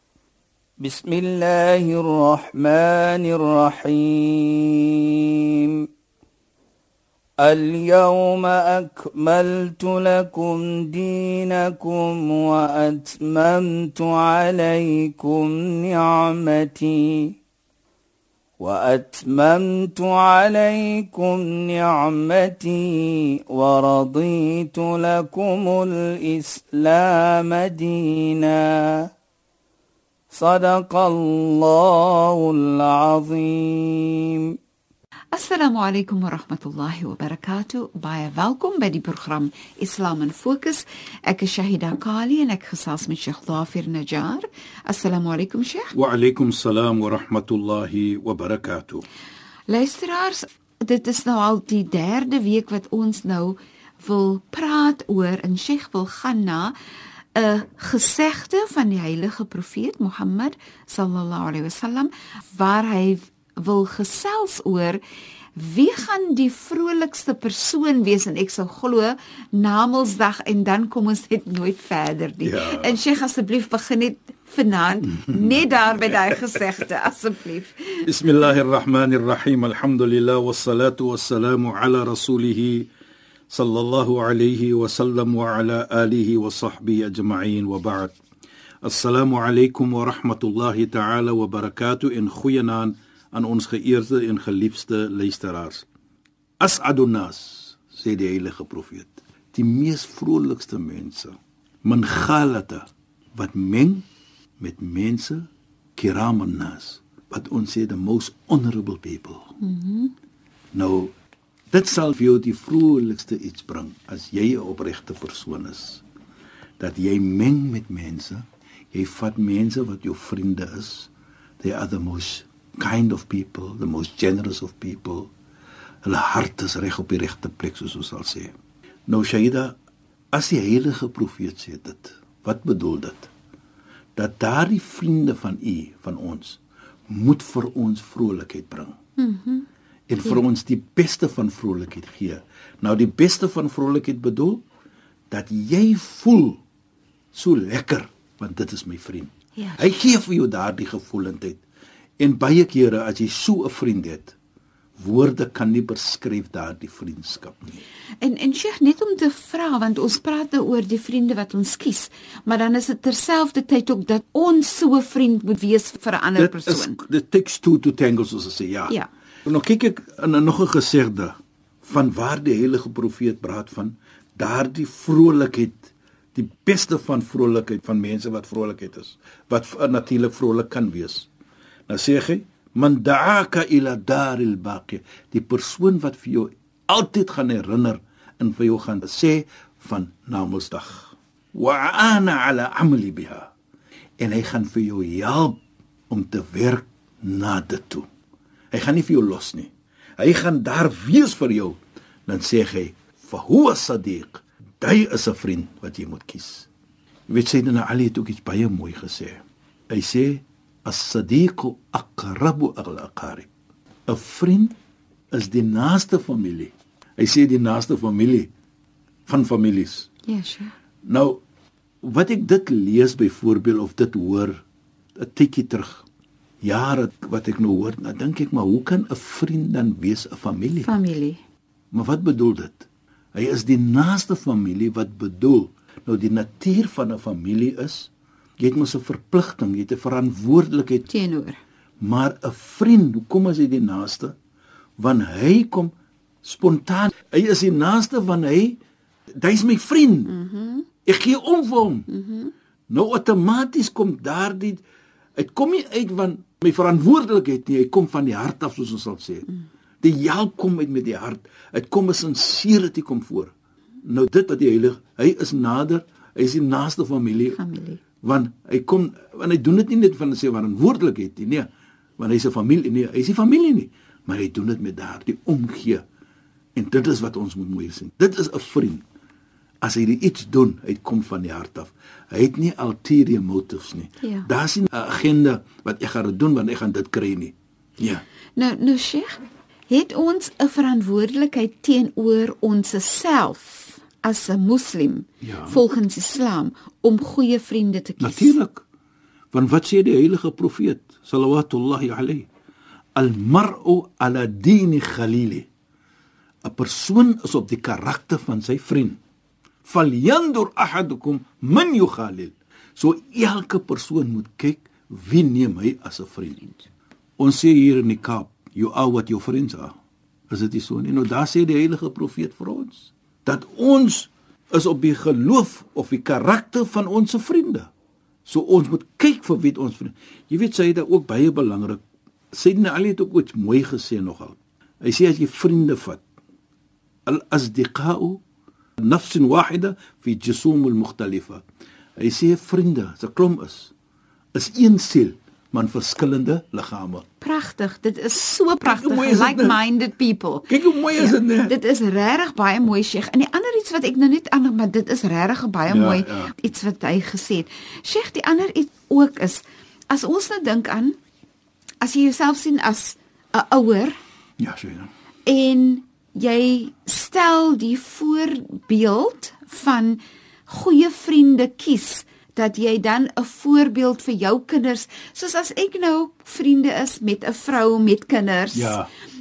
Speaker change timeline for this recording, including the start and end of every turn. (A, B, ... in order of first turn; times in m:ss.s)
0:00.8-0:05.8 A
0:07.4-0:17.4 A
0:18.6-0:29.1 A
0:30.3-0:34.5 A
0:35.3-0:46.0 B
0:45.9-0:49.0 C
0:49.7-0:56.7 B
0:57.3-1:05.0 B
1:05.6-1:18.1 B
1:12.4-1:13.0 C
1:18.0-1:22.9 C
1:23.5-1:28.2 C
1:28.8-1:35.9 C
1:36.6-1:44.0 C
1:44.6-1:49.5 C
1:49.6-1:50.1 B
1:50.7-1:51.1 C
1:51.7-1:56.0 C
1:56.8-2:05.3 C
2:06.0-2:08.5 C
2:09.1-2:09.8 C
2:10.3-2:13.3 C
2:14.2-2:19.0 C
2:19.2-2:19.7 B
2:20.1-2:24.6 C
2:25.3-2:26.6 C
2:27.3-2:31.6 C
2:29.6-2:30.0 B
2:32.2-2:34.4 C
2:35.0-2:37.8 C
2:38.2-2:47.0 B
2:46.4-2:48.9 C
2:49.5-3:01.3 C
3:01.9-3:13.5 C
3:14.2-3:15.6 C
3:16.1-3:18.1 C
3:18.7-3:26.7 C
3:27.3-3:33.5 C
3:34.1-3:34.8 C
3:35.3-3:38.5 C
3:39.2-3:40.1 C
3:40.2-3:40.7 B
3:41.0-3:41.4 C
3:42.0-3:44.6 C
3:45.2-3:46.0 C
3:46.6-3:50.9 C
3:50.8-3:51.4 B
3:51.9-4:01.1 C
4:01.1-4:01.6 B
4:02.0-4:04.4 C
4:05.0-4:08.8 C
4:09.4-4:10.3 C
4:10.3-4:10.9 B
4:11.0-4:12.1 C
4:12.1-4:12.5 B
4:12.9-4:14.8 C
4:15.4-4:19.5 C
4:20.0-4:27.6 C
4:27.5-4:28.0 B
4:28.2-4:36.0 C
4:36.8-4:39.0 C
4:39.8-4:48.2 C
4:44.2-4:44.5 B
4:48.6-4:58.6 B
4:55.4-4:55.8 C
4:58.2-4:58.8 C
4:59.5-5:02.5 C
5:03.2-5:05.7 C
5:06.6-5:09.2 C
5:09.8-5:16.6 C
5:16.6-5:16.9 B
5:17.4-5:19.9 C
5:20.5-5:27.9 C
5:28.4-5:32.0 C
5:32.5-5:36.2 C
5:37.2-5:38.4 C
5:39.0-5:41.6 C
5:42.2-5:43.9 C
5:44.5-5:47.2 C
5:47.4-6:01.2 B
5:48.8-5:49.8 C
5:50.7-5:51.8 C
5:55.9-5:56.5 C
6:02.0-6:04.2 B
6:04.6-6:05.1 C
6:05.4-6:19.0 B
6:18.7-6:19.1 C